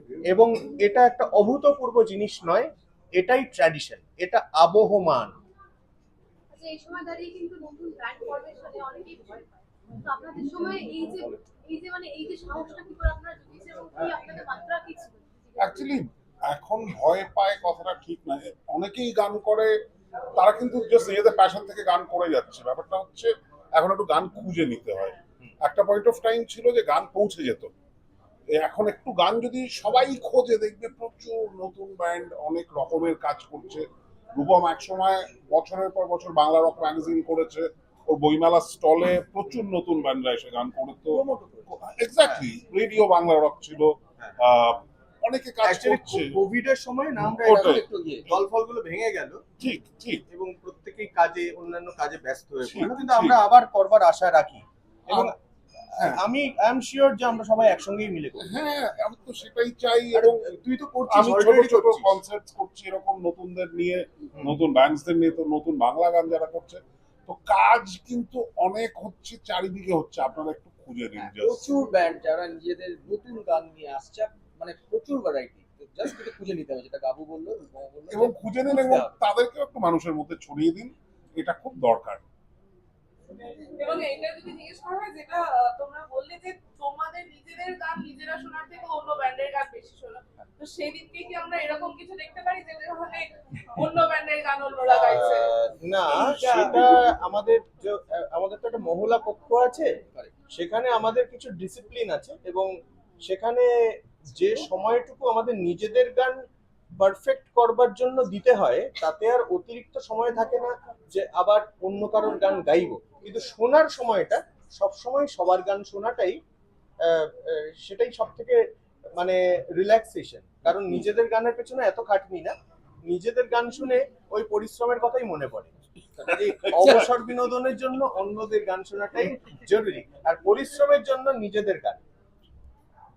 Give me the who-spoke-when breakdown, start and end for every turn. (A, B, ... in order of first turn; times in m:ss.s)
0:00.3-0:05.4 A
0:06.5-0:15.8 B
0:15.6-0:19.8 C
0:20.3-0:27.7 C
0:28.5-0:46.3 C
0:41.1-0:41.7 D
0:45.6-0:49.4 A
0:47.3-0:47.8 C
0:47.5-0:48.3 D
0:49.6-0:50.2 C
0:50.3-0:55.3 A
0:52.6-0:53.4 C
0:55.9-0:58.5 A
0:58.4-1:00.5 C
1:00.1-1:02.2 A
1:01.1-1:11.7 C
1:11.2-1:19.2 D
1:18.1-1:22.2 C
1:23.8-1:35.4 E
1:34.9-1:39.9 A
1:36.1-1:36.9 D
1:40.5-1:42.7 A
1:43.2-1:43.7 A
1:44.3-1:46.4 A
1:47.0-1:56.4 A
1:57.0-1:58.6 A
1:59.2-2:02.5 A
2:03.0-2:12.0 A
2:06.6-2:06.9 C